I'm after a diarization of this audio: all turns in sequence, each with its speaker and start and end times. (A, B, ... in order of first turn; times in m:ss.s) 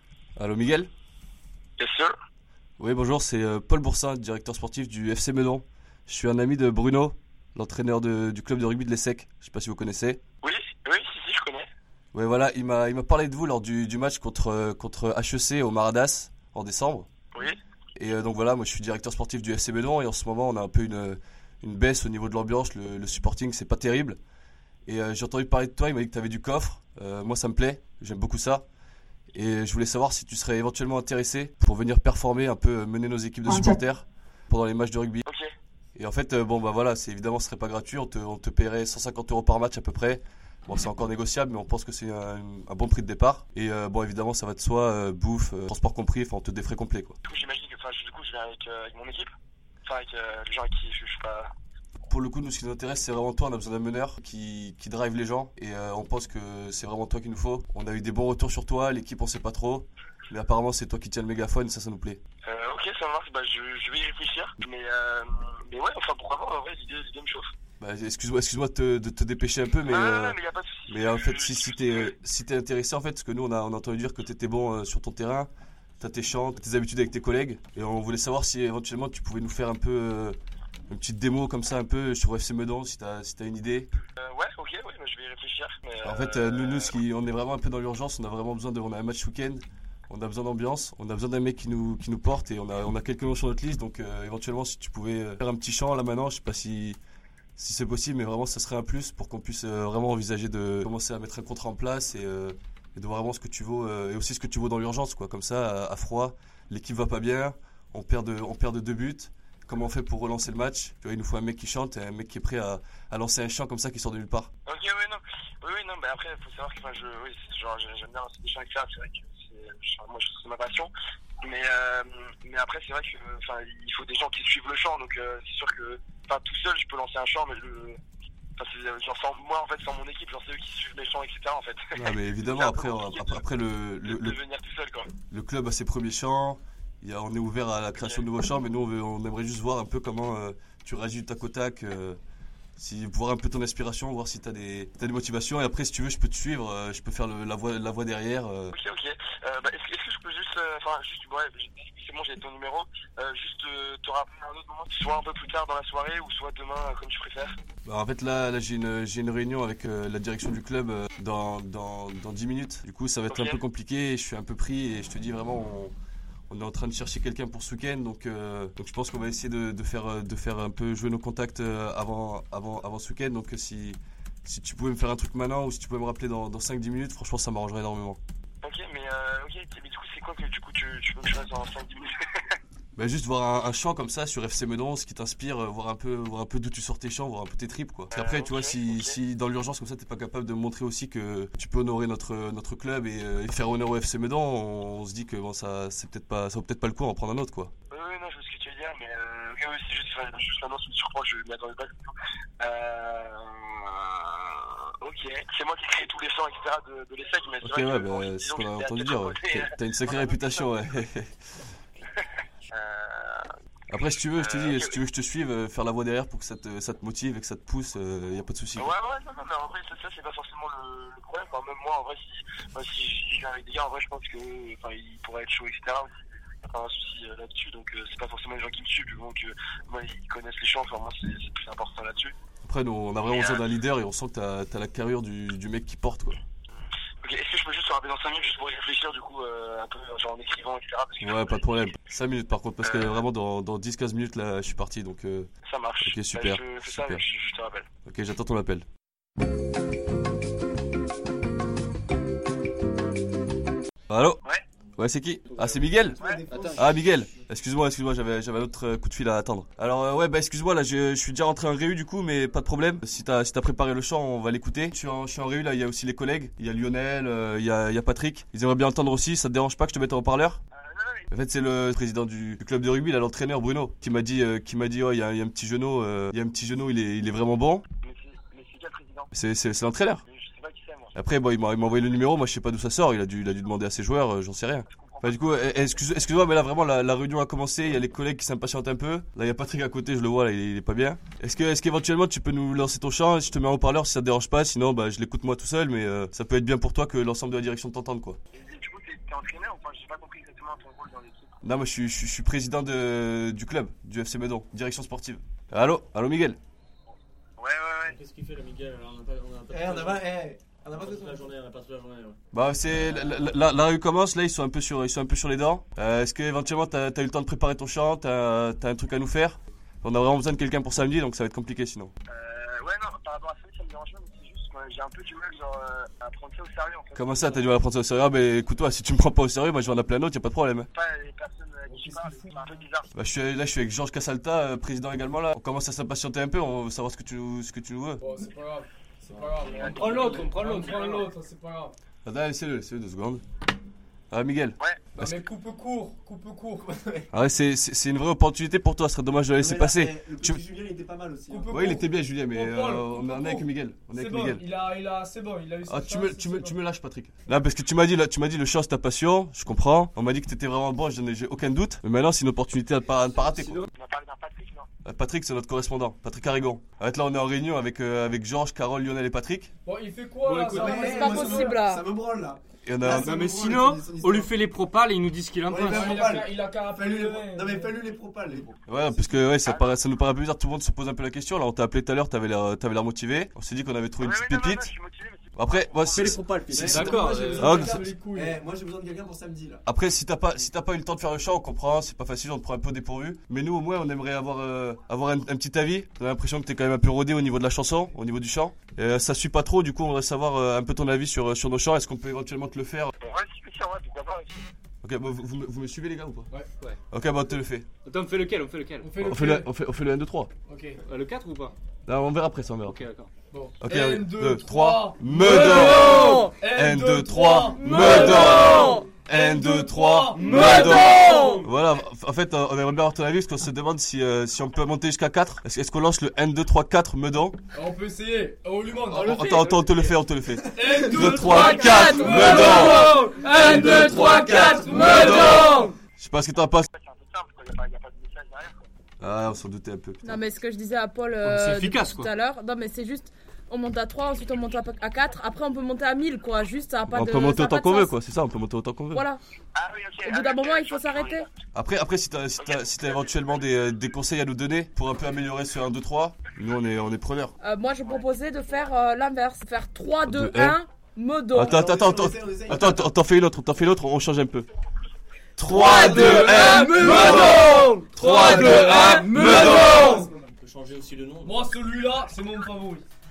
0:00.4-0:00.9 A
0:01.8-0:02.1 B
0:02.8-0:10.2 A
0:10.4-0:11.7 B
0:12.1-0:17.1 A
0:18.0-0:24.2 A
0:24.8-0:28.6 A
0:29.3-0:35.2 A
0:36.0-0:47.2 A
0:47.2-0:49.3 B
0:49.8-0:51.5 B
0:52.1-1:02.2 A
1:02.4-1:07.5 B
1:07.8-1:10.4 A
1:09.8-1:12.1 B
1:10.9-1:15.5 A
1:16.0-1:20.4 A
1:20.9-1:23.9 A
1:24.2-1:27.0 B
1:26.0-1:37.0 A
1:37.6-1:54.5 A
1:54.7-2:00.9 B
2:01.4-2:08.0 B
2:08.6-2:13.4 B
2:12.0-2:14.4 A
2:14.0-2:15.1 B
2:15.3-2:22.2 A
2:22.8-2:28.7 A
2:28.7-2:37.5 B
2:37.8-2:45.9 A
2:43.3-2:43.6 B
2:46.5-2:58.2 A
2:58.6-3:02.1 B
3:03.0-3:17.7 A
3:08.1-3:09.2 B
3:17.9-3:30.7 B
3:27.6-3:31.3 A
3:32.2-3:33.5 B
3:33.9-3:38.9 A
3:34.4-3:35.0 B
3:38.8-3:52.3 B
3:52.6-3:56.4 A
3:53.2-3:53.6 B
3:57.2-4:01.6 B
4:01.2-4:05.5 A
4:02.8-4:03.2 B
4:05.6-4:07.9 B
4:06.0-4:07.2 A
4:08.0-4:08.8 A
4:14.1-4:14.4 A
4:15.0-4:16.2 A
4:15.5-4:16.0 C
4:16.2-4:17.4 D
4:16.2-4:16.4 B
4:16.5-4:16.9 C
4:16.8-4:30.6 A
4:30.7-4:31.3 B
4:31.3-4:37.8 A
4:38.0-4:39.3 B
4:39.3-4:40.2 A
4:40.2-4:41.1 B
4:41.1-4:58.4 A
4:44.9-4:46.1 B
4:58.5-5:01.6 B
5:01.6-5:06.6 A
5:07.6-5:08.2 B
5:08.0-5:10.3 C
5:09.7-5:11.5 D
5:10.8-5:12.4 C
5:12.5-5:22.1 A
5:22.3-5:27.7 B
5:27.1-5:30.9 A
5:30.9-5:33.1 B
5:31.9-5:32.4 E
5:33.1-5:38.2 A
5:38.2-5:41.9 E
5:39.6-5:40.5 B
5:39.7-5:41.1 C
5:42.2-5:43.4 A
5:44.3-5:45.4 A
5:44.8-5:45.0 B
5:45.1-5:46.9 E
5:46.8-5:47.3 D
5:47.3-5:50.6 A
5:49.6-5:51.8 D
5:51.5-5:56.8 E
5:51.7-5:54.6 A
5:55.9-6:03.9 A
6:03.9-6:04.9 B
6:05.0-6:09.7 A
6:09.8-6:11.7 E
6:10.4-6:10.7 F
6:10.7-6:14.5 D
6:10.8-6:12.0 G
6:12.8-6:13.4 A
6:13.3-6:15.8 F
6:15.7-6:18.8 D
6:15.8-6:18.0 E
6:18.8-6:24.9 A
6:19.6-6:19.9 B
6:24.2-6:26.4 B
6:25.6-6:26.4 A
6:26.1-6:27.0 C
6:26.7-6:29.8 D
6:26.9-6:27.4 F
6:27.0-6:28.0 A
6:27.2-6:28.6 E
6:29.8-6:43.1 A
6:43.2-6:44.7 B
6:45.0-6:46.5 A
6:47.1-6:47.9 A
6:48.1-6:49.0 F
6:49.0-6:49.7 E
6:49.2-6:50.5 A
6:50.7-6:51.0 E
6:51.1-6:51.7 F
6:52.0-6:53.0 A
6:52.9-6:53.2 F
6:53.5-7:00.9 E
6:53.8-7:07.6 A
6:55.4-6:56.6 G
6:57.7-6:59.2 G
7:00.3-7:01.0 F
7:00.6-7:01.7 G
7:07.7-7:09.4 E
7:09.1-7:09.6 G
7:09.1-7:13.1 A
7:10.7-7:15.2 E
7:11.0-7:12.5 D
7:11.4-7:15.9 G
7:13.6-7:15.6 D
7:14.9-7:16.9 A
7:16.9-7:18.8 B
7:19.2-7:20.4 A
7:20.2-7:28.1 G
7:21.5-7:22.2 F
7:27.1-7:29.2 A
7:29.1-7:29.4 G
7:29.7-7:31.4 B
7:30.2-7:31.5 G
7:31.7-7:37.5 A
7:32.6-7:34.0 B
7:37.6-7:41.8 G
7:38.0-7:38.8 B
7:40.2-7:40.8 A
7:41.5-7:44.7 A
7:41.6-7:43.1 D
7:45.6-7:50.0 A
7:45.7-7:46.8 D
7:45.7-7:49.7 G
7:46.2-7:50.3 E
7:49.8-7:51.7 C
7:51.4-7:53.0 E